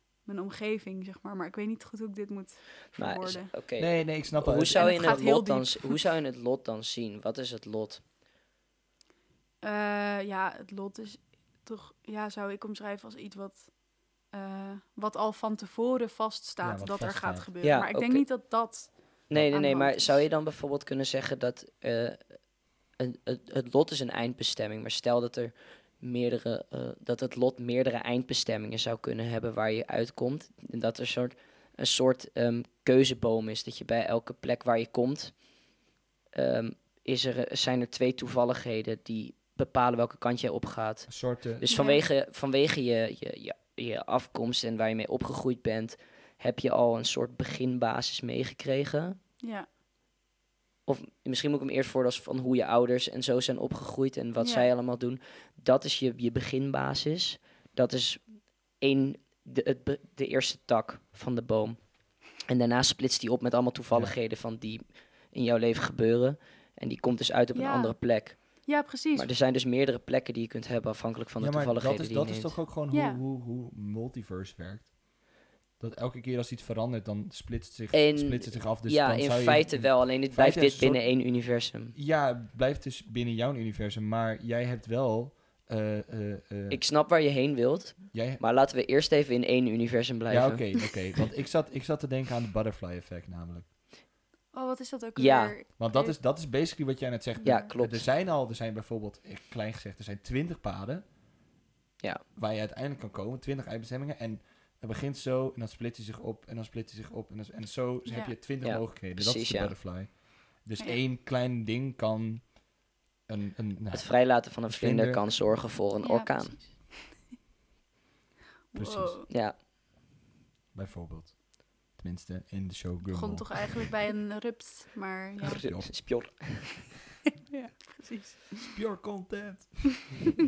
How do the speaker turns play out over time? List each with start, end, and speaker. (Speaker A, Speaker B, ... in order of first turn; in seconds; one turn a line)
Speaker A: 0.2-3.5
Speaker B: 3.0-8.0
Speaker C: 3.8-5.2
Speaker A: 4.7-6.0
Speaker A: 9.6-13.7
Speaker A: 14.3-20.2
Speaker C: 16.6-17.5
Speaker B: 17.6-18.2
Speaker B: 19.3-22.2
Speaker B: 23.0-35.3
Speaker B: 36.3-49.2
Speaker C: 41.1-41.7
Speaker A: 41.7-42.0
Speaker A: 49.4-49.7
Speaker B: 50.9-58.2
Speaker A: 54.4-54.7
Speaker B: 58.8-72.6
Speaker A: 67.5-69.3
Speaker C: 71.4-74.9
Speaker A: 72.9-73.2
Speaker C: 75.8-81.1
Speaker B: 77.9-81.9
Speaker C: 81.9-86.8
Speaker B: 86.7-90.9
Speaker C: 88.1-88.4
Speaker C: 90.3-93.7
Speaker A: 94.5-96.2
Speaker B: 95.2-95.5
Speaker C: 95.8-101.0
Speaker A: 97.4-97.7
Speaker B: 97.4-98.1
Speaker C: 102.3-112.5
Speaker A: 108.1-108.3
Speaker B: 108.6-109.7
Speaker C: 113.3-115.2
Speaker B: 113.9-116.5
Speaker A: 116.0-116.9
Speaker A: 118.7-119.3
Speaker C: 118.7-119.2
Speaker B: 119.3-119.5
Speaker C: 120.7-123.9
Speaker A: 123.1-125.6
Speaker B: 125.4-126.8
Speaker C: 125.4-126.3
Speaker A: 127.5-128.7
Speaker C: 128.6-130.1